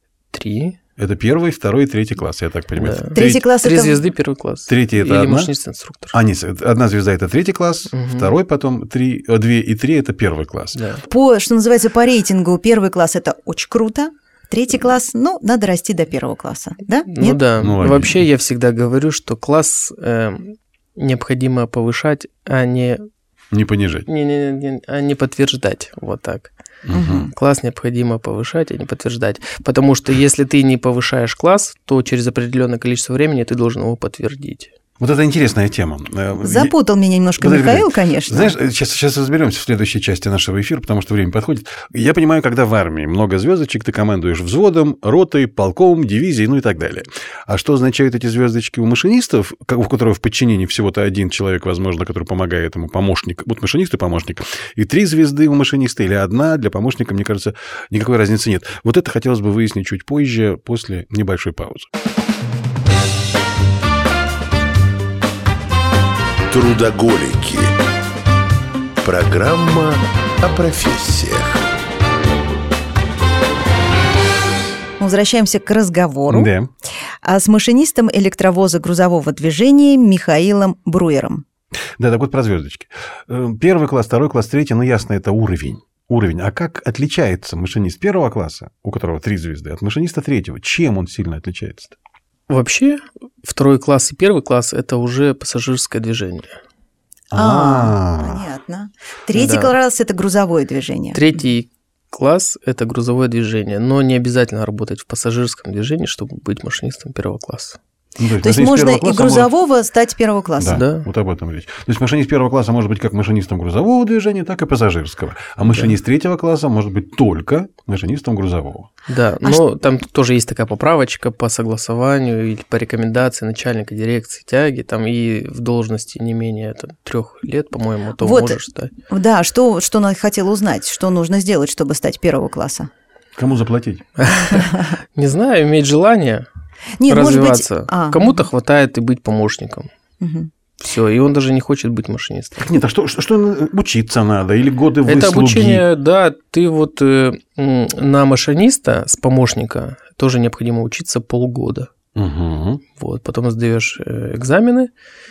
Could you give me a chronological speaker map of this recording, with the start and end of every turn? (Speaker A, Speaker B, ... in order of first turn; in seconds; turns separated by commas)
Speaker A: 0.3-0.8, Speaker B: 1.0-3.5, Speaker A: 2.8-6.2, Speaker C: 3.1-4.0, Speaker B: 4.7-5.5, Speaker B: 6.1-10.8, Speaker A: 7.9-8.3, Speaker A: 10.7-11.1, Speaker C: 11.1-17.4, Speaker A: 17.1-23.1, Speaker B: 17.6-18.2, Speaker B: 23.5-24.1, Speaker A: 24.1-26.5, Speaker B: 26.9-27.3, Speaker C: 26.9-27.3, Speaker A: 27.3-34.7, Speaker B: 35.0-36.7, Speaker C: 36.4-38.5, Speaker B: 37.4-61.9, Speaker D: 66.5-67.8, Speaker D: 69.0-71.7, Speaker C: 75.0-76.5, Speaker B: 76.3-76.7, Speaker C: 77.2-81.5, Speaker B: 82.0-92.0, Speaker A: 92.5-96.6, Speaker B: 97.3-98.5, Speaker C: 97.3-101.2, Speaker A: 99.3-99.7, Speaker A: 101.1-107.8, Speaker B: 108.2-109.5, Speaker C: 108.4-110.8, Speaker B: 110.6-118.9, Speaker A: 110.7-111.1, Speaker A: 115.7-115.9, Speaker A: 119.1-128.9, Speaker C: 128.2-132.9, Speaker B: 133.4-134.1, Speaker A: 134.2-136.5, Speaker C: 134.5-134.8, Speaker C: 137.0-138.4, Speaker A: 137.1-139.9, Speaker C: 140.2-140.5, Speaker A: 140.8-142.7, Speaker B: 142.6-145.8, Speaker A: 145.1-151.9, Speaker B: 152.2-152.8, Speaker A: 153.0-154.9